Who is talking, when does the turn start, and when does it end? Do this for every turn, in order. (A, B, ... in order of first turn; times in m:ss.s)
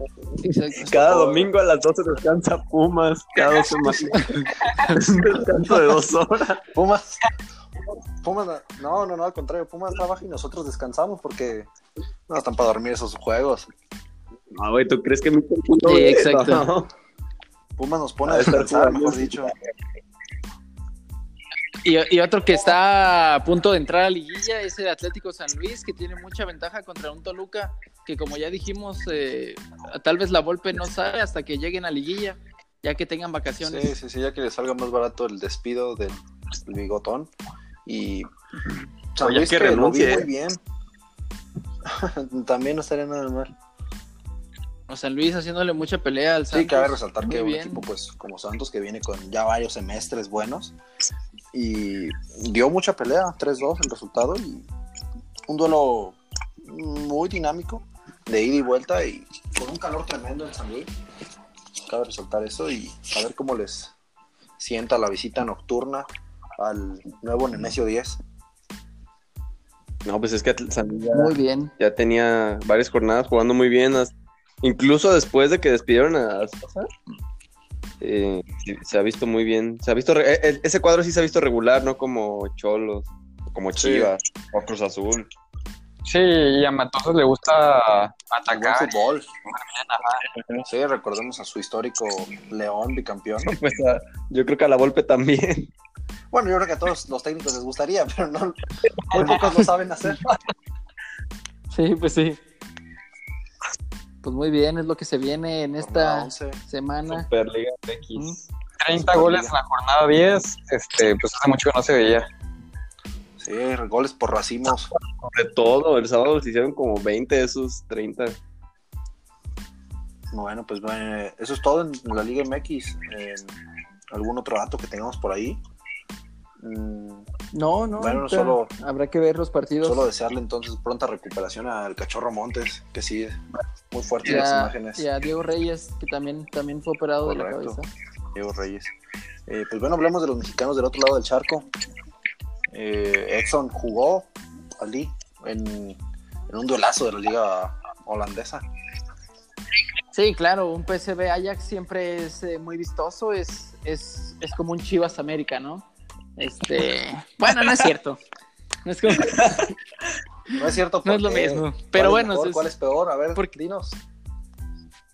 0:00.4-0:01.4 A
0:00.8-0:06.6 B
0:06.7-0:07.2 C
0:08.2-0:11.7 C
0:12.3-0:13.7 C
0:14.5-0:16.9 B
0:15.8-0:16.6 A
0:17.8-0:19.5 C
0:18.2-0:19.6 B
0:21.8-0:33.9 A
0:33.6-0:37.3 C
0:37.8-0:38.3 C
0:39.1-0:40.6 C
0:39.2-0:40.3 B
0:41.8-0:43.5 C
0:44.9-0:47.8 A
0:46.5-0:50.7 C
0:51.5-0:54.7 C
0:55.5-1:00.9 C
1:01.9-1:03.9 C
1:04.6-1:08.2 C
1:10.0-1:16.9 B
1:11.1-1:11.7 A
1:18.0-1:25.3 B
1:23.8-1:24.1 C
1:26.0-1:28.9 D
1:28.5-1:29.3 C
1:29.5-1:30.1 D
1:30.2-1:30.6 B
1:30.6-1:33.6 C
1:33.4-1:35.7 B
1:36.3-1:38.6 C
1:39.1-1:40.3 C
1:39.1-1:39.6 B
1:41.7-1:42.4 A
1:44.2-1:47.3 A
1:45.8-1:46.6 C
1:47.1-1:48.4 B
1:48.1-1:48.4 A
1:48.8-1:52.3 D
1:48.9-1:49.6 C
1:53.4-1:54.9 C
1:55.2-1:58.4 B
2:00.3-2:03.6 C
2:04.1-2:05.6 C
2:06.6-2:07.3 C
2:07.5-2:10.0 A
2:08.0-2:08.7 C
2:09.8-2:13.4 C
2:13.9-2:15.0 C
2:14.2-2:17.9 A
2:17.2-2:17.8 C
2:18.3-2:18.9 C
2:19.5-2:21.7 C
2:22.7-2:24.3 C
2:24.8-2:28.6 C
2:30.1-2:35.8 A
2:36.4-2:38.2 A
2:38.8-2:39.7 A
2:39.1-2:39.7 B
2:40.5-2:44.0 C
2:41.0-2:42.7 A